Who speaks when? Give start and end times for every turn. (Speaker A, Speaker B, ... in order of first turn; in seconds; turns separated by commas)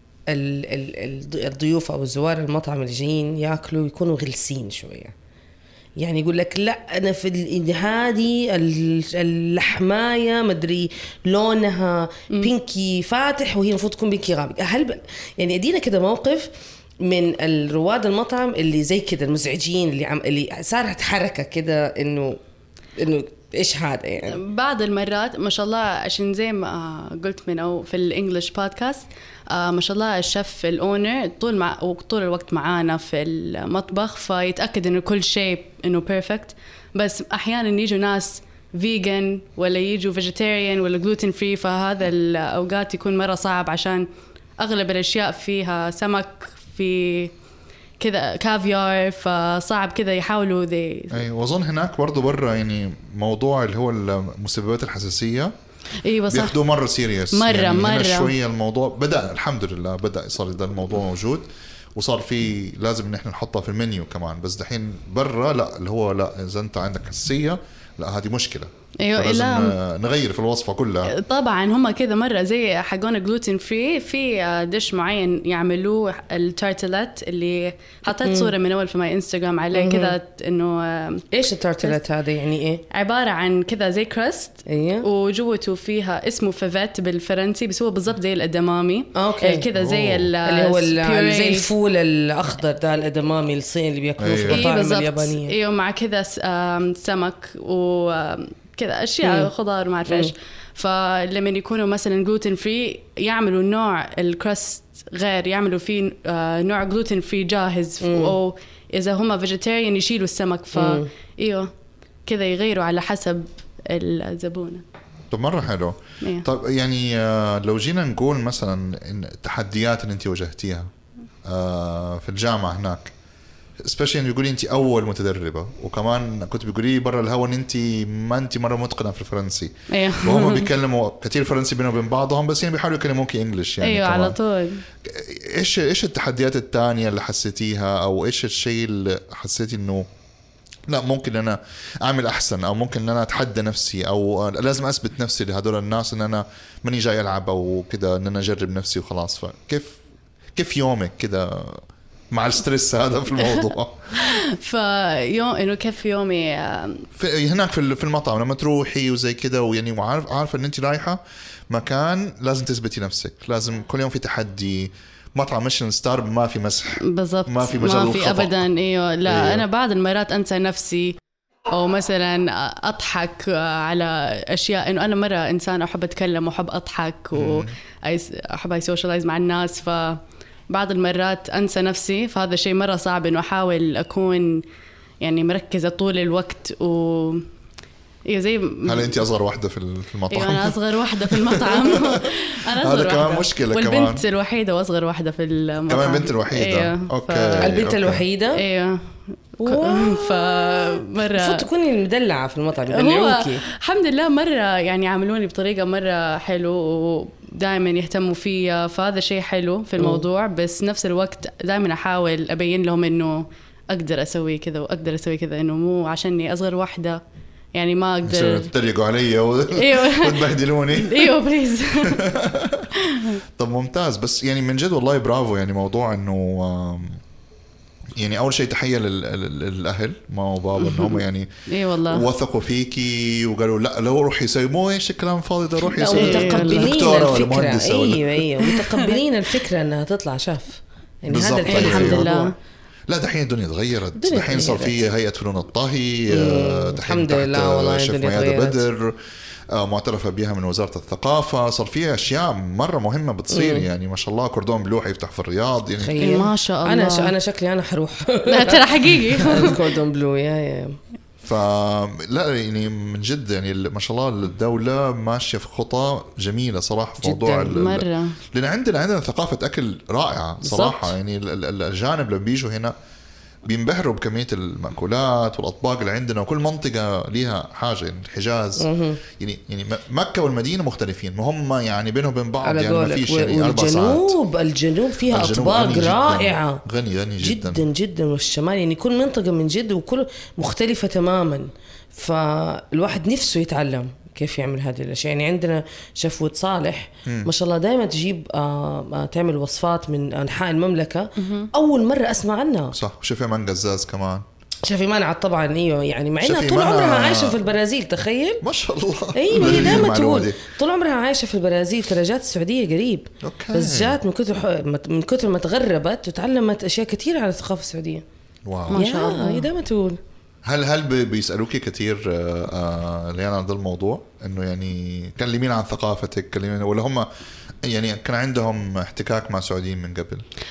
Speaker A: 0.3-5.1, Speaker A: 6.0-16.5, Speaker A: 17.0-22.4, Speaker A: 23.0-24.4, Speaker B: 24.3-44.0, Speaker B: 44.6-47.3, Speaker B: 48.0-51.2, Speaker C: 51.1-55.5, Speaker B: 56.0-56.6, Speaker C: 56.3-71.1, Speaker B: 57.3-58.3, Speaker B: 69.0-69.8, Speaker B: 71.1-81.2, Speaker A: 78.1-78.5, Speaker A: 79.7-80.1, Speaker A: 81.3-82.8, Speaker B: 82.9-91.7, Speaker A: 84.7-85.0, Speaker A: 89.1-89.7, Speaker C: 89.7-90.3, Speaker A: 90.4-95.5, Speaker C: 94.2-94.6, Speaker B: 94.5-111.7, Speaker A: 99.2-99.5, Speaker A: 100.1-100.3, Speaker A: 108.0-108.4, Speaker A: 110.7-111.1, Speaker B: 112.2-114.8, Speaker C: 115.3-120.9, Speaker C: 121.4-123.1, Speaker C: 123.8-134.4, Speaker B: 129.9-130.7, Speaker B: 133.8-134.8, Speaker C: 135.0-140.1, Speaker C: 140.9-150.0, Speaker C: 150.6-154.4, Speaker B: 154.2-157.1, Speaker C: 157.2-168.7, Speaker B: 167.0-171.2, Speaker C: 169.2-169.7, Speaker B: 171.7-184.6, Speaker C: 177.3-177.7, Speaker B: 185.2-187.5, Speaker B: 188.2-189.2, Speaker C: 188.8-194.2, Speaker B: 190.3-197.8, Speaker C: 195.9-198.2, Speaker A: 197.6-198.6, Speaker B: 198.5-201.7, Speaker A: 199.6-203.6, Speaker B: 202.9-217.2, Speaker A: 210.0-210.2, Speaker B: 217.7-218.7, Speaker C: 218.2-221.4, Speaker B: 219.7-222.3, Speaker C: 222.0-222.9, Speaker B: 223.1-223.4, Speaker C: 223.6-227.2, Speaker C: 228.2-231.5, Speaker B: 231.7-232.3, Speaker C: 232.1-238.4, Speaker A: 236.0-242.5, Speaker B: 236.0-237.0, Speaker B: 238.6-239.2, Speaker C: 241.3-242.3, Speaker B: 241.7-242.5, Speaker C: 243.1-249.2, Speaker A: 244.2-245.0, Speaker A: 246.3-248.8, Speaker C: 249.7-256.2, Speaker A: 253.5-253.8, Speaker A: 256.0-261.0, Speaker B: 256.2-257.3, Speaker B: 258.5-259.9, Speaker C: 261.4-272.9, Speaker A: 267.2-267.8, Speaker B: 267.7-268.4, Speaker A: 270.6-271.1, Speaker C: 273.6-284.4, Speaker A: 278.8-279.2, Speaker A: 282.6-286.8, Speaker C: 285.3-287.8, Speaker A: 287.4-302.9, Speaker B: 301.4-301.7, Speaker C: 302.9-304.4, Speaker A: 304.8-308.6, Speaker C: 306.4-307.6, Speaker C: 308.6-310.6, Speaker A: 309.3-318.2, Speaker C: 313.4-314.2, Speaker C: 318.6-319.0, Speaker B: 318.9-319.7, Speaker A: 318.9-320.2, Speaker C: 320.6-327.3, Speaker C: 327.8-330.4